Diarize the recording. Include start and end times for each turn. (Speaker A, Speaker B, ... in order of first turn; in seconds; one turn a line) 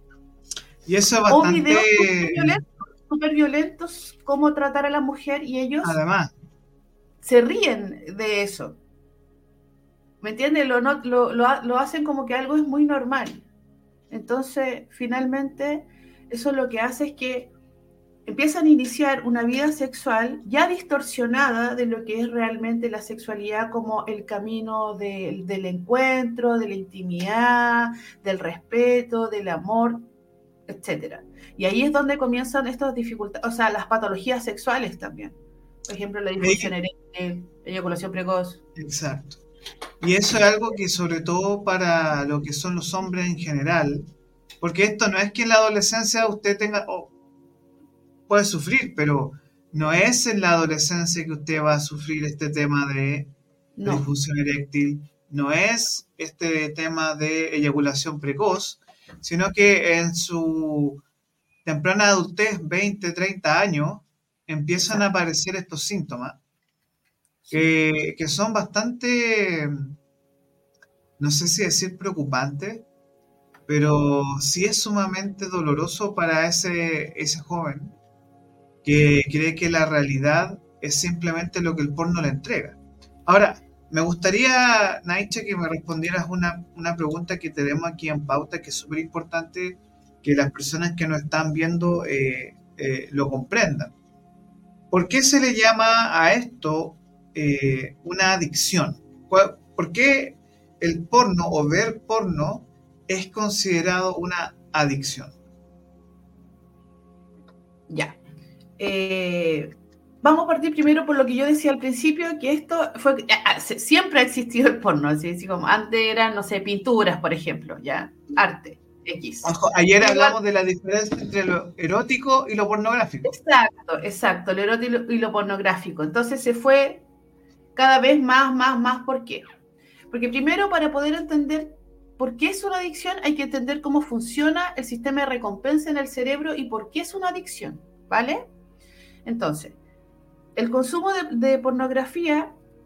Speaker A: 0.9-2.6
Speaker B: 1.3-6.0
Speaker A: 5.8-6.3
Speaker B: 7.2-8.8
Speaker B: 10.2-13.5
Speaker B: 14.1-17.5
Speaker B: 18.3-30.1
Speaker B: 30.7-35.4
Speaker B: 35.9-38.6
Speaker A: 36.4-36.7
Speaker A: 38.8-39.4
Speaker A: 40.0-44.1
Speaker A: 44.6-47.1
Speaker A: 48.3-53.3
Speaker B: 53.8-54.1
Speaker A: 53.9-61.0
Speaker A: 61.6-66.4
Speaker A: 67.5-69.9
Speaker A: 71.2-72.8
Speaker A: 73.7-78.0
Speaker A: 78.8-93.9
Speaker A: 94.9-105.3
Speaker B: 107.9-108.2
Speaker B: 108.8-120.4
Speaker A: 119.4-123.3
Speaker B: 123.2-127.0
Speaker B: 127.8-129.4
Speaker B: 130.1-138.5
Speaker B: 139.2-139.8
Speaker B: 140.6-142.5